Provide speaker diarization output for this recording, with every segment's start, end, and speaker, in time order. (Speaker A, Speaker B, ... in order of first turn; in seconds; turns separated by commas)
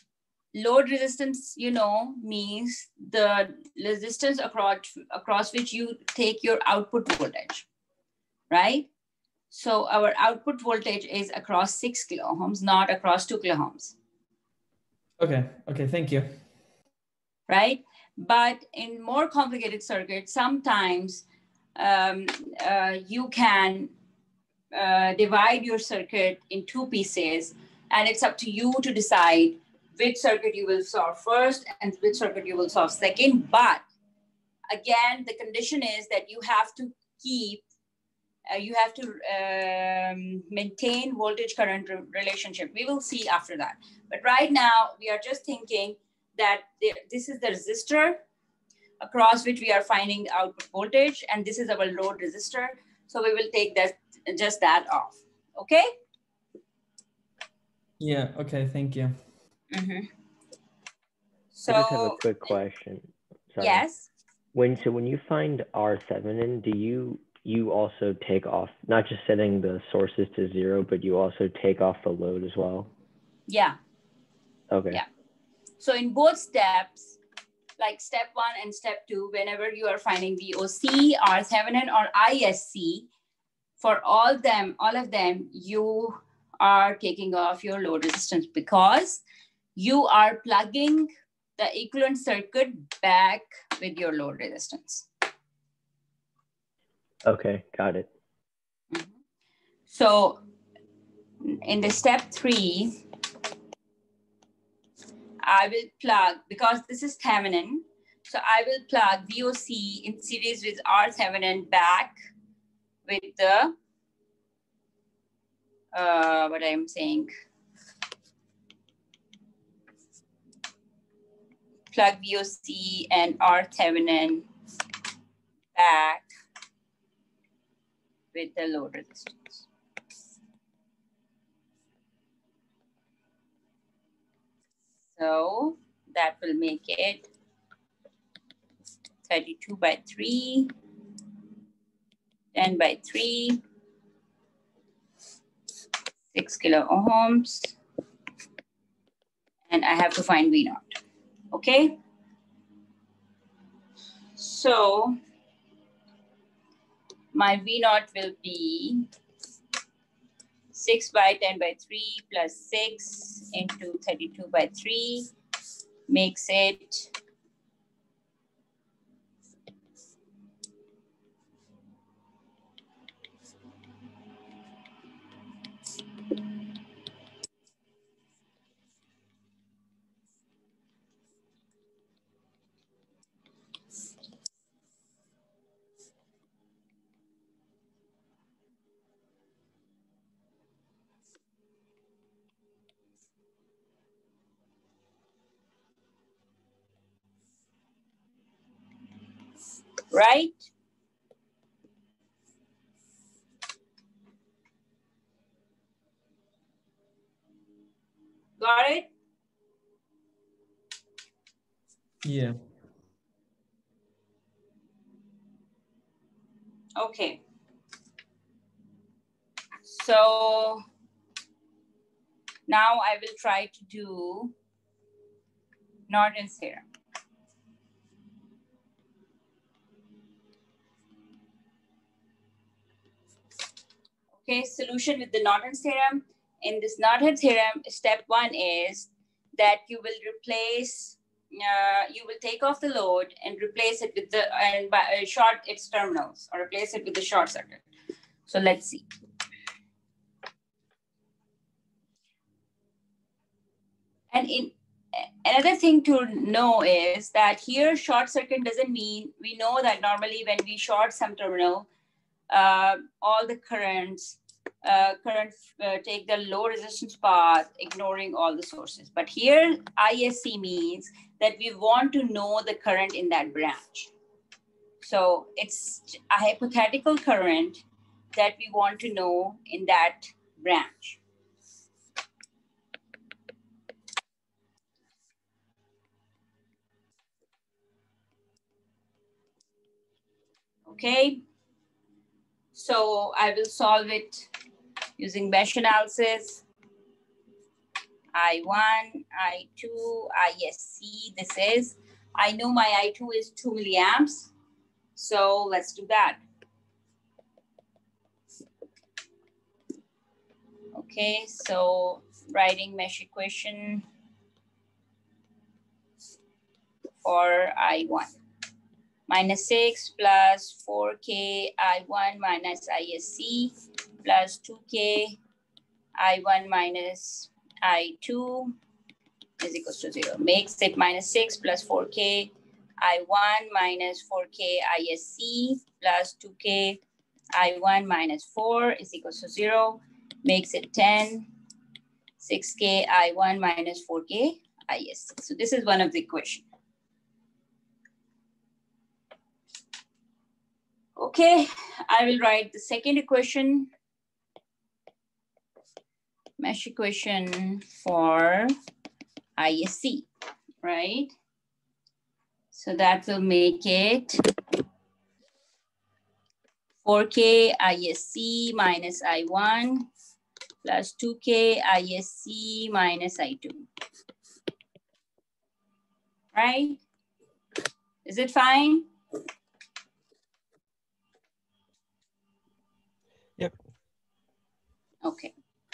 Speaker A: 0.5-7.7, Speaker A: 8.5-8.9, Speaker A: 9.5-14.0, Speaker B: 15.2-16.4, Speaker A: 17.5-21.2, Speaker A: 21.8-23.9, Speaker A: 24.7-33.8, Speaker A: 34.7-37.6, Speaker A: 38.5-48.2, Speaker A: 49.0-55.9, Speaker B: 58.0-59.2, Speaker A: 59.7-60.1, Speaker A: 61.5-62.5, Speaker C: 61.7-63.8, Speaker A: 63.6-64.1, Speaker C: 64.5-72.9, Speaker A: 73.5-73.8, Speaker C: 74.7-75.0, Speaker A: 75.8-77.2, Speaker A: 77.8-83.1, Speaker A: 83.8-89.2, Speaker A: 89.8-95.1, Speaker C: 97.2-98.1, Speaker A: 98.9-99.2, Speaker A: 99.9-100.4, Speaker A: 101.4-103.0, Speaker A: 105.4-112.2, Speaker A: 113.1-113.8, Speaker A: 115.9-117.3, Speaker A: 121.9-124.5, Speaker A: 125.8-126.3, Speaker A: 128.3-129.7, Speaker A: 135.1-137.3, Speaker A: 139.3-140.7, Speaker A: 142.5-143.6, Speaker A: 146.3-147.8, Speaker A: 149.7-151.0, Speaker A: 151.5-152.0, Speaker A: 154.4-155.2, Speaker A: 157.3-159.1, Speaker A: 160.7-165.3, Speaker A: 166.1-167.1, Speaker A: 200.1-200.6, Speaker A: 208.6-209.1, Speaker B: 212.2-212.6, Speaker A: 217.0-217.4, Speaker A: 219.8-220.8, Speaker A: 222.7-224.5, Speaker A: 226.1-226.8, Speaker A: 234.4-247.8, Speaker A: 248.5-249.0, Speaker A: 254.3-261.9, Speaker A: 262.5-274.1, Speaker A: 275.0-277.8, Speaker A: 278.3-281.2, Speaker A: 290.9-291.4, Speaker A: 292.7-294.5, Speaker A: 295.2-296.6, Speaker A: 298.3-304.5, Speaker A: 305.2-306.4, Speaker A: 310.9-314.1, Speaker A: 317.2-318.3, Speaker A: 319.3-325.4, Speaker A: 326.2-328.8, Speaker A: 329.6-337.0, Speaker A: 337.5-341.5, Speaker A: 342.4-346.6, Speaker A: 351.2-353.9, Speaker A: 356.6-358.7, Speaker A: 359.6-360.3, Speaker A: 360.8-361.3, Speaker A: 362.7-364.4, Speaker A: 367.0-370.1, Speaker A: 370.8-373.9, Speaker A: 376.5-377.0, Speaker A: 378.2-379.1, Speaker A: 385.2-385.5